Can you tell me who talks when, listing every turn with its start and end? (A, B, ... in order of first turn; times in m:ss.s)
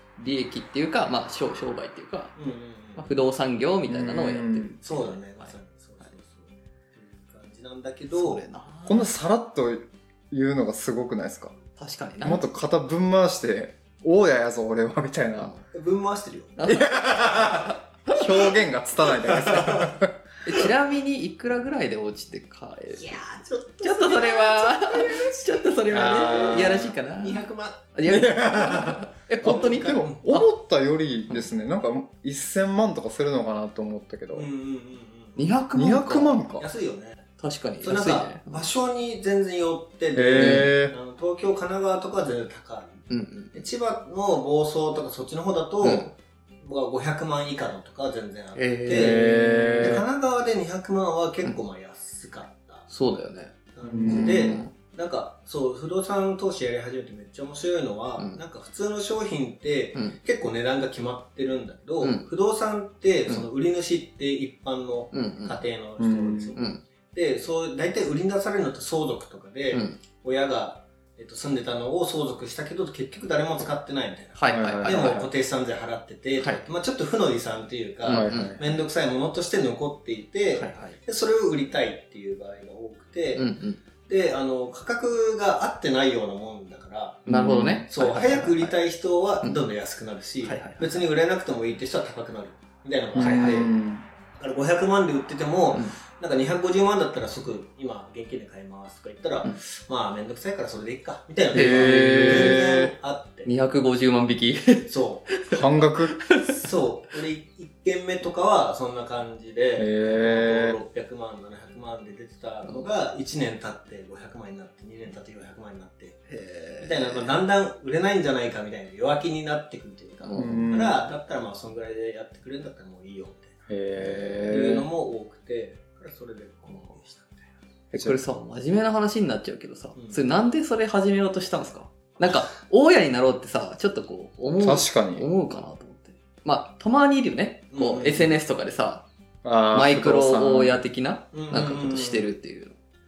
0:00.2-0:02.3 A
0:02.4-0:03.1 B
0:03.0-0:05.5 A
0:03.9-0:04.8 C
0:04.8-0:08.4 B
0:08.1-0:09.1 A
0:08.9-0:11.5 C
0:11.8-0:12.5 A
0:12.2-0:15.5 C
0:15.4-0:15.6 A
0:15.7-0:16.7 B
0:16.6-0:17.8 A
0:16.7-0:20.2 C
0:19.3-0:19.9 B
0:20.4-0:23.2 A
0:22.9-0:28.0 B
0:23.8-0:30.5 A
0:25.9-0:27.0 C
0:28.1-0:34.5 C
0:29.3-0:30.3 B
0:34.3-0:35.5 B
0:35.4-0:36.6 A
0:35.7-0:36.7 C
0:36.6-0:37.3 B
0:37.4-0:38.7 A
0:37.8-0:49.2 B
0:40.2-0:41.0 C
0:40.4-0:40.8 A
0:43.1-0:43.6 A
0:45.8-0:46.1 A
0:48.6-0:50.0 A
0:48.9-0:50.0 C
0:49.8-0:52.9 B
0:52.9-0:54.7 A
0:53.8-1:23.5 B
0:53.8-0:54.7 C
1:02.0-1:02.3 A
1:05.1-1:05.6 A
1:06.0-1:06.6 C
1:06.6-1:06.8 A
1:09.7-1:10.0 A
1:14.4-1:15.3 A
1:14.5-1:15.3 C
1:18.0-1:18.7 A
1:18.1-1:18.6 C
1:20.5-1:21.0 A
1:23.4-1:23.8 A
1:24.0-1:27.3 B
1:27.3-1:28.8 A
1:27.3-1:27.9 C
1:27.9-1:33.7 B
1:30.4-1:31.0 A
1:33.1-1:34.0 C
1:33.2-1:33.7 A
1:34.4-1:43.5 B
1:41.5-1:42.9 C
1:41.6-1:42.9 A
1:43.4-1:44.9 A
1:44.9-1:45.4 B
1:45.4-1:46.6 A
1:45.5-1:46.2 C
1:46.4-1:56.3 B
1:49.8-1:50.8 C
1:52.6-1:52.9 A
1:56.3-1:57.3 A
1:56.8-2:07.4 B
2:00.2-2:00.8 A
2:00.4-2:01.0 C
2:03.7-2:04.9 C
2:04.0-2:04.4 A
2:06.7-2:06.9 A
2:07.9-2:08.2 C
2:07.9-2:19.1 A
2:10.0-2:10.3 B
2:12.2-2:12.5 B
2:14.6-2:15.3 C
2:17.7-2:18.4 B
2:19.4-2:20.8 C
2:19.7-2:22.8 A
2:21.3-2:22.3 B